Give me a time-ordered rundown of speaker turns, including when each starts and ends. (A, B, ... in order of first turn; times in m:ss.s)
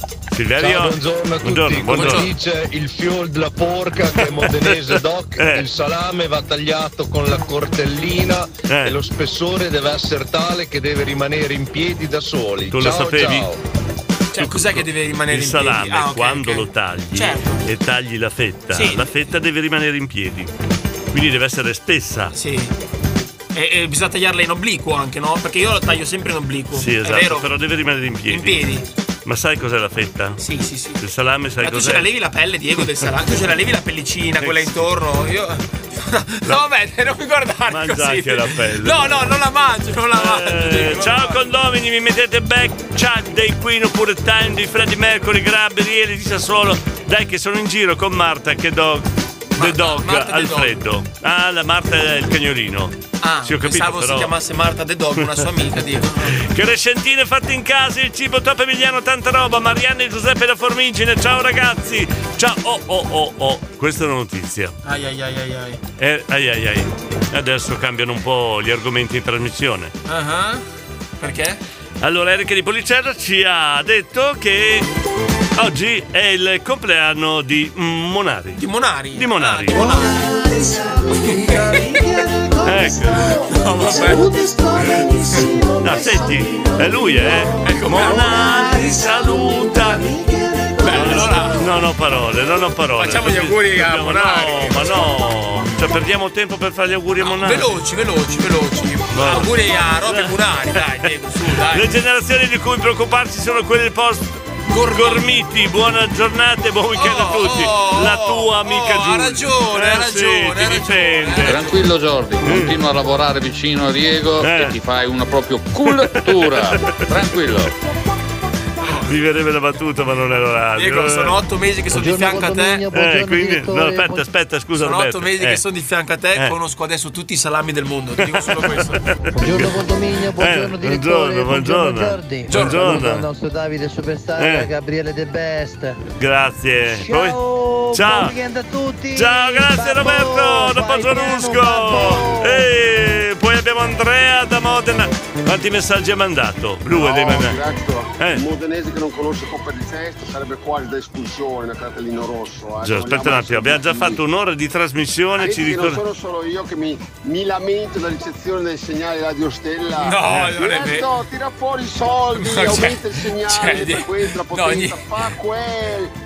0:00.3-0:02.3 A
0:00.6-0:13.6 B
0:01.8-0:02.3 C
0:04.2-0:05.7 A
0:08.6-0:09.0 A
0:12.7-0:13.5 A
0:14.3-0:17.6 C
0:14.4-0:20.5 A
0:18.7-0:19.0 C
0:21.1-0:22.3 A
0:22.3-0:22.7 C
0:23.5-0:27.5 C
0:26.7-0:28.6 A
0:28.3-0:28.8 C
0:29.2-0:30.4 A
0:30.4-0:31.0 C
0:31.0-0:32.1 A
0:31.6-0:41.4 C
0:34.4-0:34.8 A
0:37.7-0:39.0 A
0:40.1-0:49.0 A
0:49.6-0:50.7 C
0:49.6-0:54.3 A
0:53.2-0:56.4 C
0:56.3-1:04.7 A
1:04.8-1:05.8 C
1:06.0-1:09.9 A
1:10.1-1:10.6 C
1:11.2-1:11.6 C
1:12.0-1:14.9 A
1:15.6-1:18.6 A
1:18.6-1:20.4 C
1:19.1-1:19.9 A
1:21.2-1:21.8 C
1:22.6-1:24.3 A
1:23.5-1:24.3 C
1:25.8-1:30.1 A
1:27.6-1:28.3 C
1:30.8-1:31.6 C
1:30.9-1:37.7 A
1:33.0-1:34.9 C
1:37.2-1:41.8 C
1:39.1-1:39.5 A
1:40.0-1:40.3 A
1:41.6-1:51.7 A
1:44.7-1:45.2 C
1:46.9-1:51.7 C
1:51.4-1:57.7 D
1:52.4-1:52.7 A
1:54.4-1:54.7 A
1:55.8-1:57.0 A
1:59.0-2:01.4 A
2:00.8-2:02.9 C
2:02.6-2:04.2 E
2:02.9-2:05.6 A
2:04.8-2:09.0 C
2:08.2-2:13.3 A
2:09.5-2:12.4 E
2:12.5-2:12.9 C
2:14.2-2:15.8 E
2:14.4-2:14.7 A
2:16.1-2:17.4 A
2:17.9-2:18.4 A
2:18.6-2:19.0 E
2:19.1-2:27.6 A
2:26.9-2:34.2 F
2:28.2-2:28.4 A
2:32.8-2:36.0 A
2:35.4-2:46.1 F
2:40.0-2:41.1 C
2:40.3-2:40.6 A
2:42.4-2:45.0 C